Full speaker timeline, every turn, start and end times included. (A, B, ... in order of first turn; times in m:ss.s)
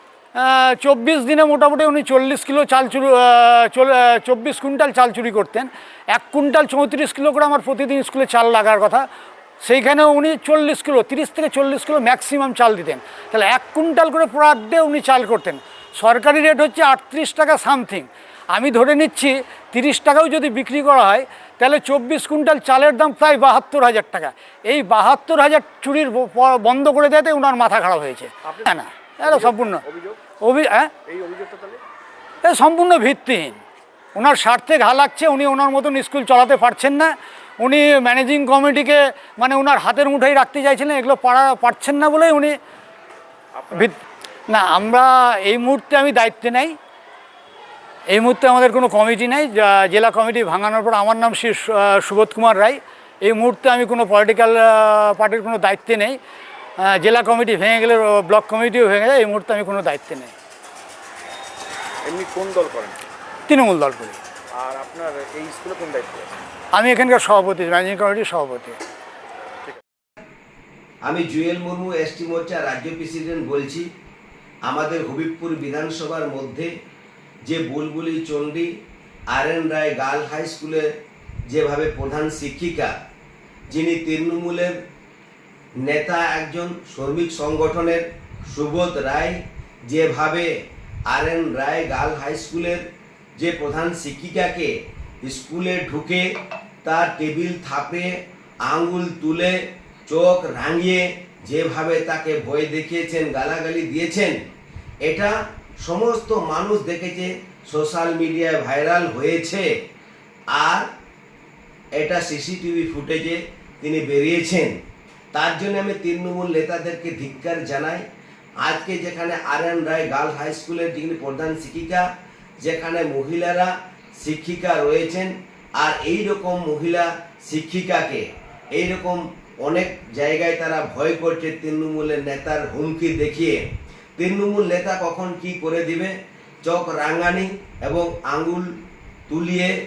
0:00.4-0:09.1 A
0:09.6-0:29.8 A
0:29.2-0:30.2 B
0:30.4-0:30.9 A
0:31.1-0:31.8 B
0:32.4-0:33.6 A
0:34.2-0:42.6 A
0:43.7-0:46.8 A
0:48.1-0:56.2 A
0:56.8-1:00.3 A
1:02.0-1:03.0 B
1:03.5-1:04.2 A
1:04.6-1:06.3 B
1:06.7-1:08.8 A
1:11.0-1:13.8 C
1:14.7-1:16.7 C
1:17.4-1:18.7 C
1:19.3-1:20.9 C
1:21.5-1:22.9 C
1:23.7-1:24.8 C
1:25.8-1:30.5 C
1:31.1-1:32.8 C
1:33.4-1:34.7 C
1:35.2-1:36.2 C
1:36.8-1:38.1 C
1:38.6-1:39.5 C
1:40.1-1:44.4 C
1:45.0-1:49.7 C
1:50.5-1:50.9 C
1:52.0-1:54.8 C
1:55.3-1:58.0 C
1:58.6-2:02.0 C
2:02.6-2:08.2 C
2:08.7-2:13.6 C
2:14.2-2:16.1 C
2:16.6-2:18.7 C
2:19.3-2:19.7 C